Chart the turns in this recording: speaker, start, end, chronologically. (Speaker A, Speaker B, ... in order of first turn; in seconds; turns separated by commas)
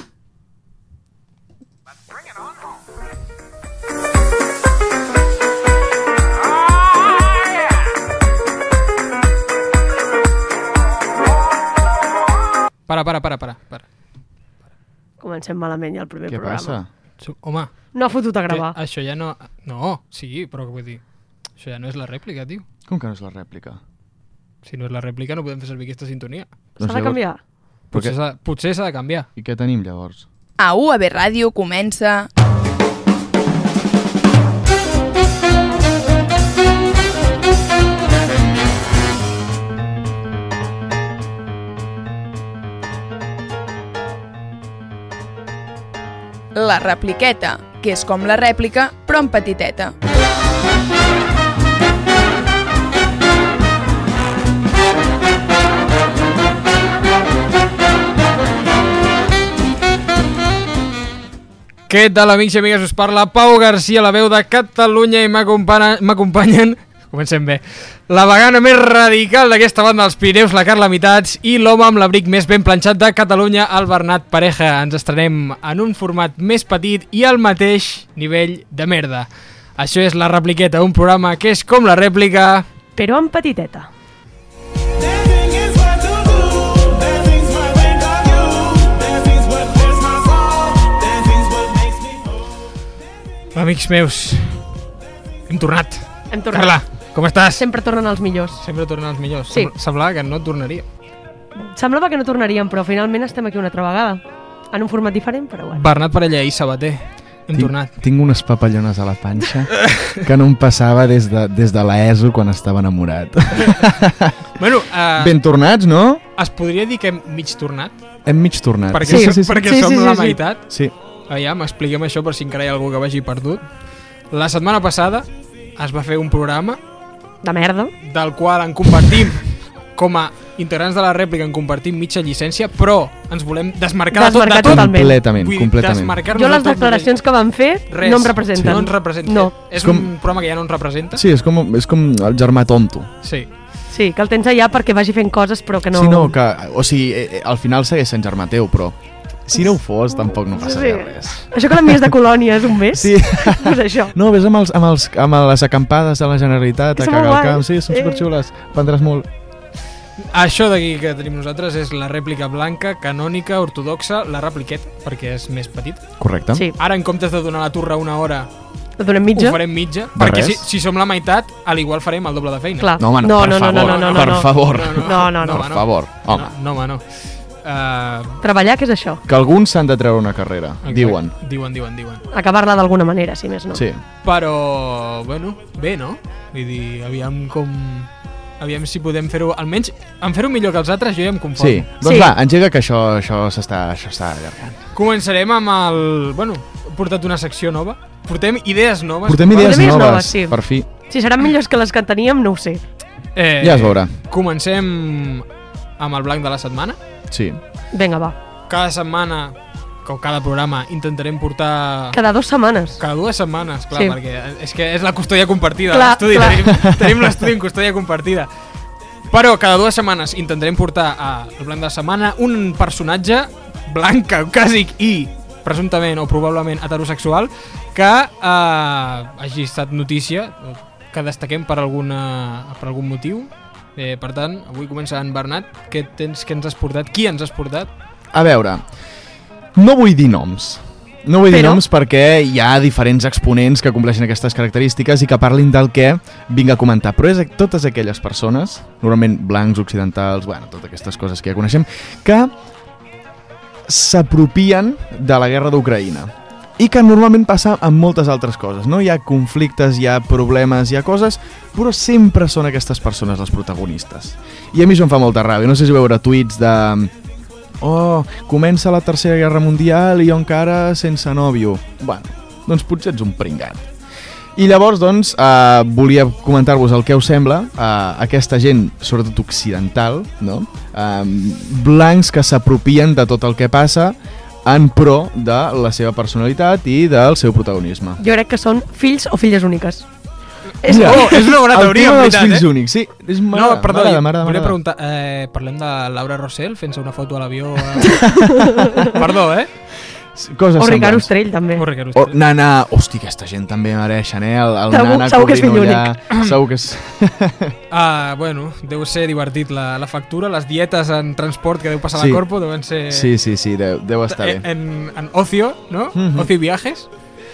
Speaker A: 12.9-13.9, Speaker B: 15.2-16.8, Speaker C: 16.3-16.9, Speaker A: 17.2-17.9, Speaker B: 17.9-18.8, Speaker A: 18.5-21.0, Speaker A: 21.6-22.6, Speaker C: 22.9-23.8, Speaker A: 24.6-26.5, Speaker C: 26.8-27.2, Speaker B: 26.8-27.4, Speaker A: 27.9-29.3, Speaker C: 29.4-30.3, Speaker D: 30.6-32.3, Speaker D: 46.5-49.9, Speaker A: 61.9-82.7, Speaker B: 83.0-83.9, Speaker A: 85.6-90.9, Speaker A: 93.5-94.7, Speaker A: 95.5-97.7, Speaker B: 96.3-96.8, Speaker B: 97.6-98.6, Speaker A: 98.6-100.8, Speaker B: 101.6-105.8, Speaker A: 105.7-107.9, Speaker C: 107.5-114.3, Speaker A: 109.8-110.3, Speaker A: 114.6-115.4, Speaker C: 115.2-116.2, Speaker A: 116.4-118.0, Speaker C: 118.3-119.7, Speaker A: 118.9-120.7, Speaker B: 119.0-120.4, Speaker A: 121.3-123.6, Speaker A: 124.3-126.8, Speaker B: 127.4-127.9, Speaker A: 128.0-137.1, Speaker B: 134.1-135.2, Speaker C: 134.7-136.2, Speaker B: 136.3-139.5, Speaker A: 137.9-141.2, Speaker C: 139.8-140.1, Speaker C: 141.2-143.1, Speaker A: 143.2-143.5, Speaker B: 143.9-146.3, Speaker C: 145.9-152.1, Speaker B: 150.2-154.1, Speaker C: 152.9-159.3, Speaker B: 157.0-158.3, Speaker A: 160.3-166.1, Speaker C: 166.2-166.7, Speaker A: 166.8-168.5, Speaker B: 169.0-169.6, Speaker A: 169.3-178.4, Speaker C: 170.2-170.7, Speaker B: 172.8-175.7, Speaker C: 173.0-176.5, Speaker B: 178.4-179.2, Speaker C: 179.3-181.3, Speaker A: 180.8-182.2, Speaker B: 182.3-183.8, Speaker C: 183.7-184.0, Speaker A: 184.2-188.1, Speaker A: 188.6-191.9, Speaker C: 191.6-194.9, Speaker B: 192.0-192.3, Speaker A: 194.9-200.1, Speaker C: 199.2-200.9, Speaker B: 199.6-202.8, Speaker A: 203.3-205.4, Speaker C: 203.6-204.1, Speaker A: 206.0-207.0, Speaker C: 207.3-207.6, Speaker B: 207.9-208.4, Speaker A: 208.7-212.2, Speaker B: 212.1-213.0, Speaker A: 213.0-218.5, Speaker B: 215.9-216.6, Speaker A: 219.3-237.9, Speaker C: 238.3-238.8, Speaker C: 239.8-252.5, Speaker B: 241.5-241.8, Speaker C: 253.9-267.1, Speaker C: 267.8-273.9, Speaker C: 274.6-288.2, Speaker B: 288.2-290.1, Speaker B: 290.8-291.5, Speaker A: 290.8-292.7, Speaker C: 290.9-294.8, Speaker A: 293.5-298.3, Speaker B: 298.0-299.2, Speaker A: 299.0-299.7, Speaker C: 300.3-301.3, Speaker B: 300.8-301.8, Speaker A: 301.8-302.4, Speaker C: 302.1-307.8, Speaker B: 304.9-306.1, Speaker A: 306.3-306.6, Speaker A: 307.9-313.3, Speaker C: 312.1-312.4, Speaker C: 313.1-314.7, Speaker A: 314.3-317.1, Speaker C: 316.1-316.5